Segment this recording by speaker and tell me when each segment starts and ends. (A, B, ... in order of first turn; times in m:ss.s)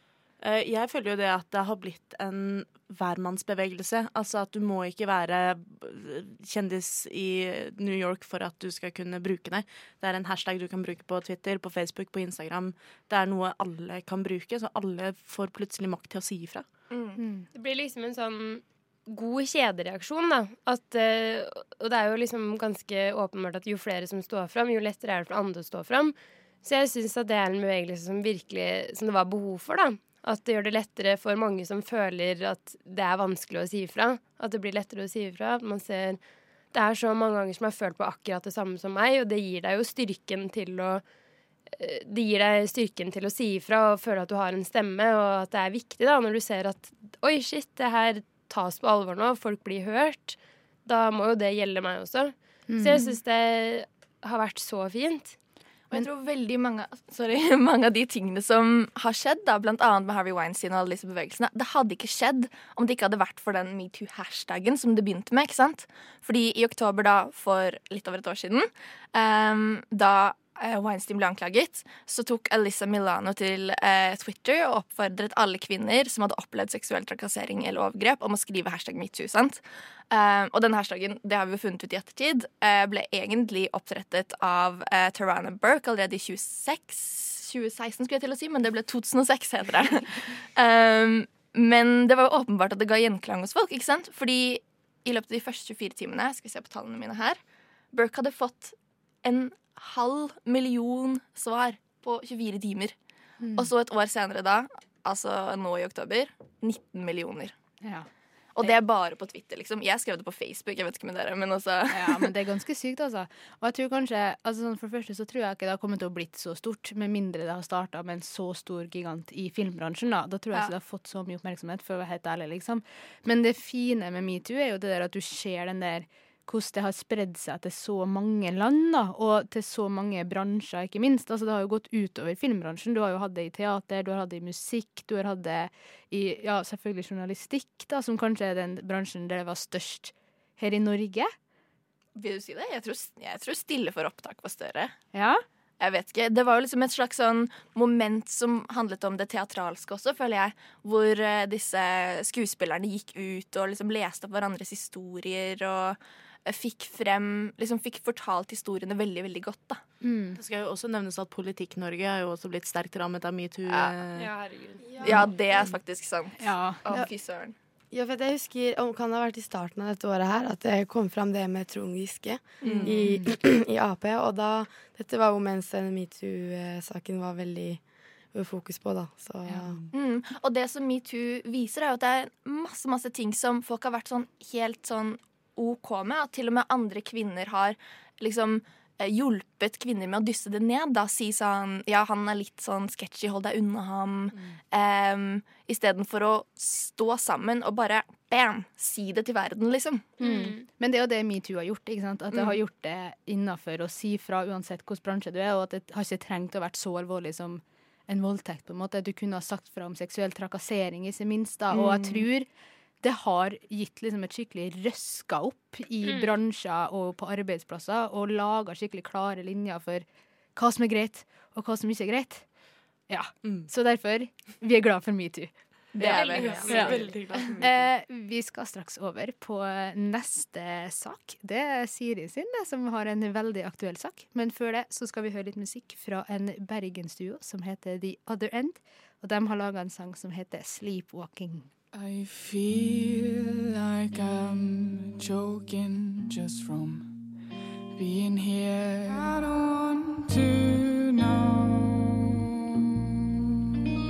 0:00.4-0:16.7 A
0:16.9-0:17.2 B
0:17.2-0:17.5 C
0:17.5-0:36.2 D
0:36.7-0:41.0 D
0:41.8-0:55.4 D
0:52.7-0:53.1 C
0:55.9-1:37.4 B
1:37.9-1:43.0 B
1:43.4-1:43.7 C
1:43.6-1:47.6 B
1:47.8-1:48.1 C
1:48.6-1:52.3 B
1:51.9-2:21.3 C
2:22.2-2:25.0 B
2:25.1-2:25.4 C
2:25.8-2:39.8 B
2:40.0-2:40.4 C
2:40.4-2:44.3 A
2:44.2-2:45.1 D
2:45.0-2:47.6 B
2:46.4-2:46.8 C
2:47.9-2:57.8 E
2:52.6-2:52.9 B
2:52.9-2:53.3 C
2:58.3-2:59.8 E
2:59.9-3:20.1 B
3:20.2-3:20.6 D
3:20.2-3:32.5 C
3:31.7-3:32.3 B
3:33.0-3:40.0 C
3:36.0-3:36.3 D
3:40.6-3:42.4 C
3:43.1-3:47.1 C
3:46.0-3:47.9 A
3:46.0-3:47.2 D
3:47.6-4:01.7 C
4:01.9-4:07.2 F
4:08.0-4:12.2 F